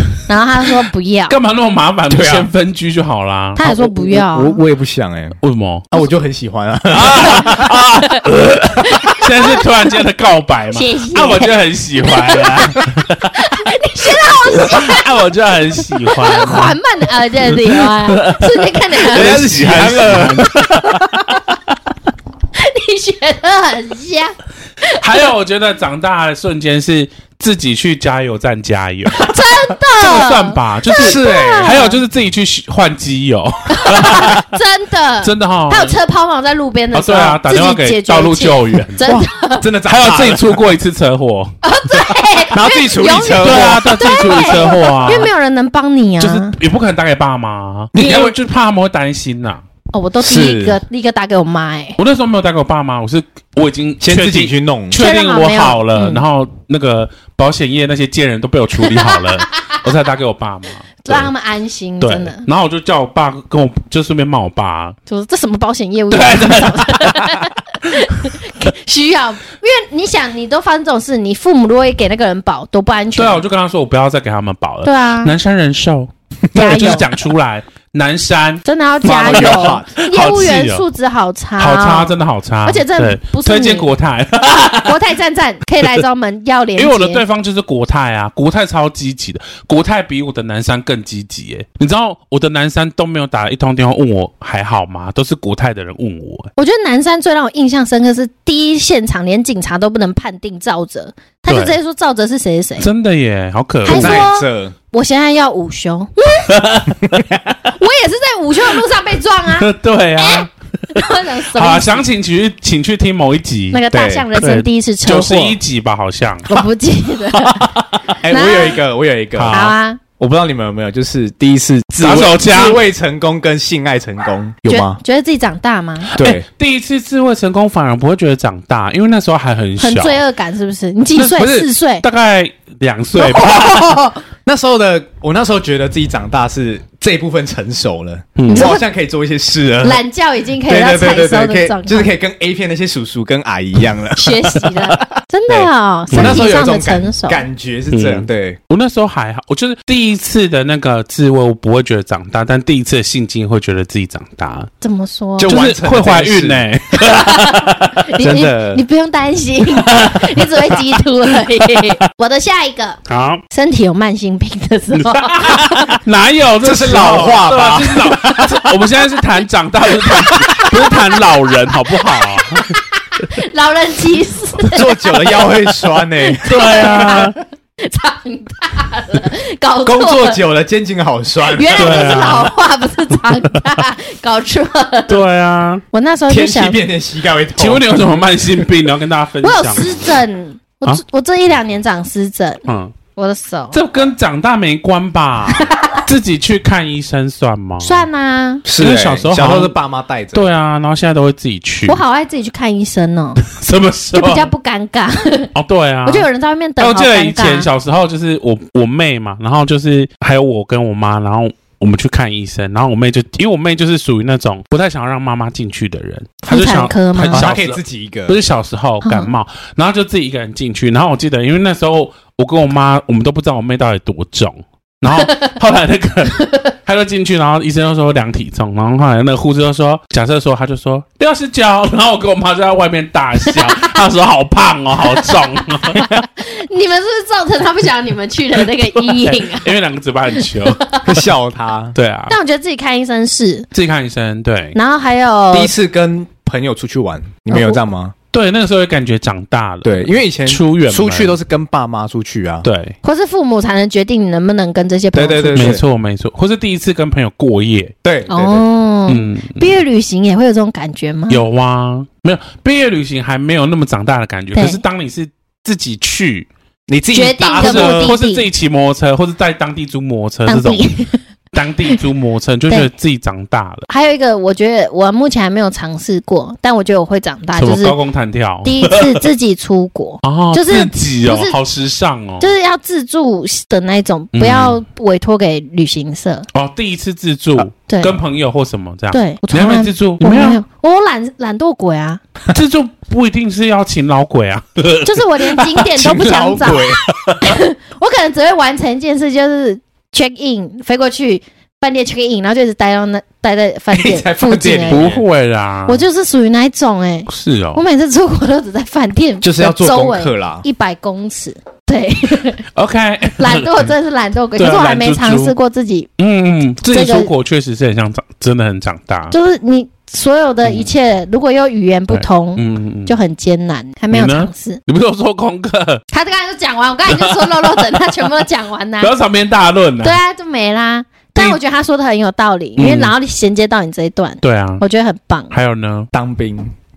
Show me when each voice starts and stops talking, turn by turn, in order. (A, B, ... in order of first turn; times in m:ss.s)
0:00.2-0:01.4 A
0:01.3-0:03.7 B
0:02.1-0:02.5 C
0:03.6-0:04.6 A
0:03.6-0:05.4 C
0:05.4-0:05.9 B
0:05.9-0:07.8 C
0:06.9-0:13.6 B
0:08.8-0:09.7 A
0:10.7-0:15.2 A
0:14.2-0:16.8 B
0:15.8-0:19.8 A
0:17.5-0:21.1 B
0:19.1-0:21.0 C
0:22.5-0:25.3 A
0:25.0-0:29.4 B
0:29.1-0:32.0 A
0:29.9-0:34.4 B
0:31.0-0:31.9 C
0:33.7-0:39.7 A
0:35.2-0:36.0 B
0:36.9-0:39.0 B
0:39.0-0:40.6 C
0:39.9-0:41.5 B
0:41.6-0:46.6 A
0:42.5-0:44.9 C
0:43.4-0:45.3 B
0:46.2-0:49.6 B
0:47.9-0:48.4 C
0:49.9-0:52.0 A
0:50.2-0:50.8 C
0:52.0-1:01.3 B
0:54.0-0:55.0 C
0:54.9-0:56.2 A
0:58.8-0:59.8 A
1:01.0-1:02.4 A
1:02.0-1:05.0 B
1:05.1-1:13.4 A
1:06.1-1:08.0 B
1:13.2-1:20.8 B
1:14.8-1:15.3 A
1:16.5-1:17.1 A
1:18.6-1:23.9 A
1:19.0-1:19.9 C
1:21.6-1:25.0 B
1:24.8-1:27.2 A
1:26.8-1:36.5 B
1:36.6-1:42.9 A
1:41.5-1:41.8 B
1:42.8-1:44.2 B
1:43.8-1:46.6 A
1:43.8-1:44.7 C
1:46.5-1:47.2 B
1:47.6-1:52.1 A
1:49.6-1:56.6 B
1:53.7-1:55.6 A
1:53.9-1:54.2 C
1:56.4-1:57.7 A
1:57.3-1:57.9 B
1:58.2-1:59.6 C
1:58.3-1:58.8 A
1:59.4-1:59.7 B
1:59.5-2:00.0 A
2:00.2-2:05.0 C
2:02.0-2:02.8 B
2:04.7-2:06.2 A
2:06.1-2:10.2 B
2:06.1-2:06.4 C
2:09.8-2:12.0 A
2:11.1-2:14.0 B
2:11.4-2:11.7 C
2:13.2-2:14.2 A
2:14.4-2:20.0 C
2:18.4-2:18.7 B
2:18.5-2:18.8 A
2:19.8-2:22.1 A
2:20.6-2:28.6 C
2:24.1-2:27.4 A
2:26.1-2:26.4 B
2:27.9-2:34.7 B
2:34.8-2:35.6 A
2:35.4-2:36.6 C
2:35.5-2:38.1 B
2:36.9-2:43.0 A
2:38.2-2:38.8 C
2:39.8-2:40.8 B
2:41.6-2:42.0 B
2:43.1-2:43.4 B
2:43.5-2:45.9 A
2:45.0-2:52.7 B
2:46.6-2:48.7 C
2:50.2-2:51.2 A
2:51.9-2:55.5 A
2:54.7-2:57.2 C
2:56.2-3:00.4 A
2:56.4-2:57.4 B
2:59.8-3:02.2 C
3:01.5-3:05.2 A
3:01.8-3:02.5 B
3:05.1-3:05.8 B
3:05.9-3:06.8 A
3:06.3-3:08.7 C
3:07.6-3:10.2 B
3:09.4-3:12.6 A
3:12.6-3:12.9 B
3:13.1-3:13.8 A
3:13.7-3:18.0 B
3:15.6-3:16.0 A
3:17.8-3:18.6 A
3:18.6-3:20.5 C
3:18.8-3:19.7 B
3:20.3-3:22.0 B
3:21.9-3:23.4 A
3:23.4-3:24.5 B
3:24.1-3:25.5 A
3:25.5-3:26.3 B
3:26.0-3:27.7 A
3:26.8-3:56.2 B
3:36.4-3:37.4 A
3:37.3-3:38.4 C
3:39.0-3:39.3 A
3:45.1-3:45.5 A
3:53.5-3:54.0 A
3:55.0-3:59.7 A
3:59.0-4:01.0 B
4:00.4-4:01.1 A
4:01.0-4:02.0 C
4:02.0-4:02.4 B
4:02.3-4:03.7 A
4:03.7-4:04.8 B
4:04.7-4:05.7 A
4:05.5-4:08.1 C
4:07.5-4:07.8 A
4:08.3-4:11.4 B
4:09.8-4:12.7 C
4:12.6-4:13.0 B
4:13.0-4:15.8 A
4:15.1-4:15.8 C
4:15.5-4:17.9 B
4:18.0-4:18.6 C
4:18.3-4:21.4 A
4:19.1-4:19.6 B
4:21.3-4:26.5 B
4:24.5-4:24.8 A
4:26.9-4:28.2 C
4:27.1-4:28.5 A
4:27.6-4:30.9 B
4:30.4-4:31.2 A
4:31.5-4:33.9 B
4:33.9-4:38.0 A
4:37.6-4:39.2 B
4:38.6-4:41.6 A
4:40.2-4:42.5 B
4:42.4-4:46.5 A
4:44.3-4:44.8 B
4:46.5-4:50.6 B
4:47.9-4:48.2 A
4:49.1-4:52.2 A
4:52.5-4:55.9 B
4:55.0-5:05.1 A
4:56.0-4:57.0 C
4:56.8-4:57.5 B
5:03.9-5:05.2 C
5:04.9-5:06.0 B
5:05.9-5:12.6 A
5:07.3-5:07.8 B
5:09.4-5:10.6 C
5:12.7-5:13.9 B
5:13.4-5:16.1 A
5:14.6-5:15.5 B
5:16.2-5:19.3 B
5:16.9-5:17.3 A
5:19.3-5:24.8 A
5:20.6-5:20.9 B
5:22.1-5:23.1 B
5:24.1-5:26.0 B
5:26.1-5:29.1 A
5:27.1-5:28.0 B
5:29.0-5:30.2 B
5:30.0-5:35.5 A
5:32.8-5:33.1 B
5:34.4-5:34.8 B
5:35.5-5:36.1 B
5:36.1-5:36.7 C